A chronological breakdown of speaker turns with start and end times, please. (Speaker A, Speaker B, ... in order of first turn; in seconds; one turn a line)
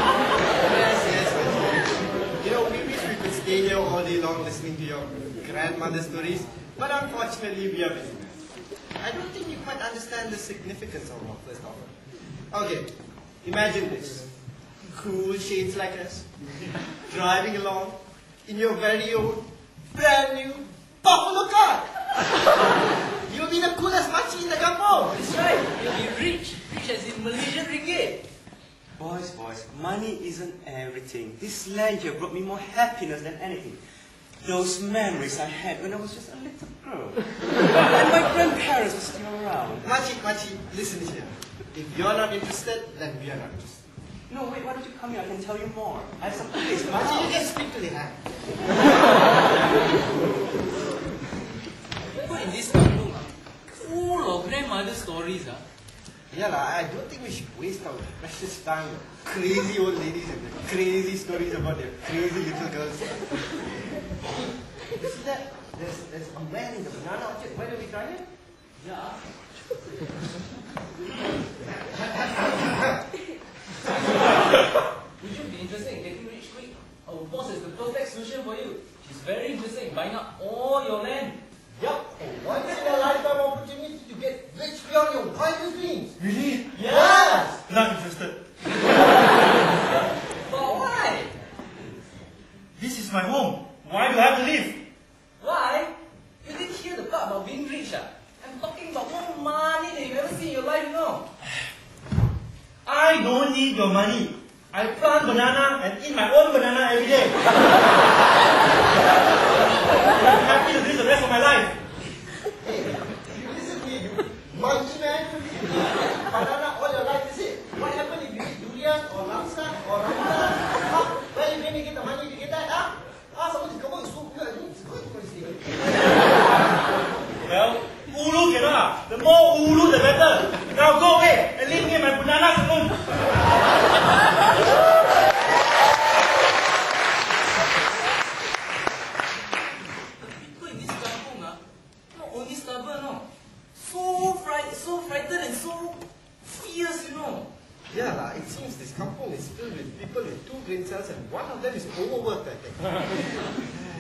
Speaker A: 0.5-8.4
Speaker A: 9.0-12.0
Speaker A: 12.5-14.3
Speaker A: 14.9-16.3
Speaker A: 16.9-22.0
Speaker A: 23.1-25.2
Speaker B: 25.1-28.2
Speaker C: 29.0-33.9
Speaker C: 34.4-39.9
Speaker A: 39.8-43.8
Speaker C: 44.3-47.4
Speaker A: 46.8-48.2
Speaker B: 52.1-55.6
Speaker A: 56.3-63.4
Speaker A: 64.9-68.3
Speaker B: 68.8-69.2
Speaker A: 72.1-73.0
Speaker B: 74.2-74.6
Speaker B: 75.2-81.4
Speaker A: 81.8-86.2
Speaker D: 86.2-86.8
Speaker A: 86.8-87.6
Speaker D: 87.7-88.4
Speaker B: 90.5-91.3
Speaker D: 92.8-94.8
Speaker B: 95.4-101.3
Speaker D: 102.9-107.4
Speaker D: 110.2-111.8
Speaker A: 112.6-125.9
Speaker D: 127.4-133.2
Speaker B: 140.2-141.6
Speaker B: 142.1-147.5
Speaker A: 147.9-153.1